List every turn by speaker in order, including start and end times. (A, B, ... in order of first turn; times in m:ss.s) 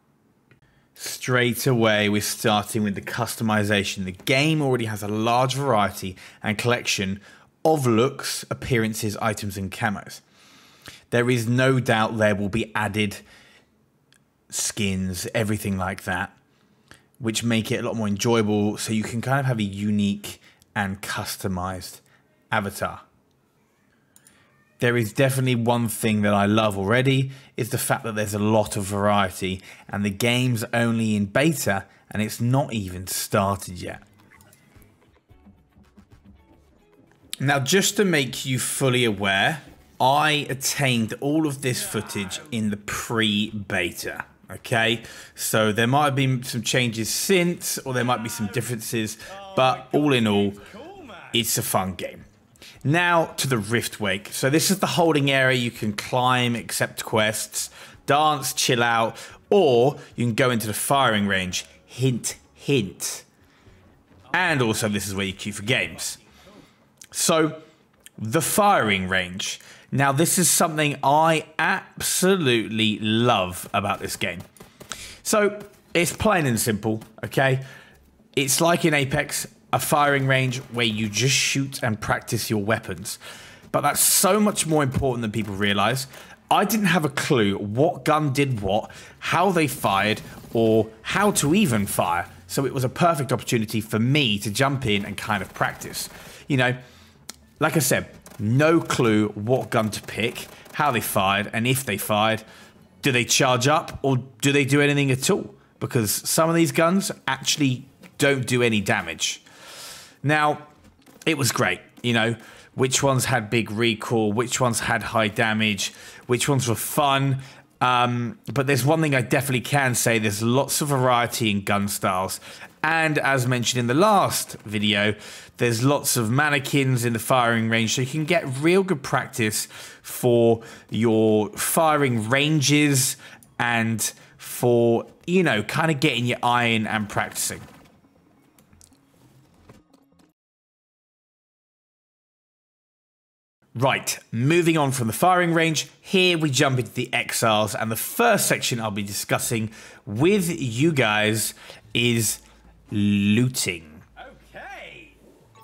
0:01.0-0:10.2 A
0:11.1-0:13.2 A
0:14.5-0:16.3 A
0:17.2-0:23.0 A
0:24.8-0:34.0 A
0:37.4-0:52.2 A
0:52.8-1:03.2 A
1:04.3-1:06.2 A
1:07.1-1:07.6 A
1:08.2-1:14.4 A
1:15.2-1:17.6 A
1:18.3-1:23.2 A
1:23.7-1:36.8 A
1:37.6-1:42.4 A
1:43.0-1:49.4 A
1:50.2-1:50.7 A
1:51.2-2:17.7 A
2:23.8-2:34.1 A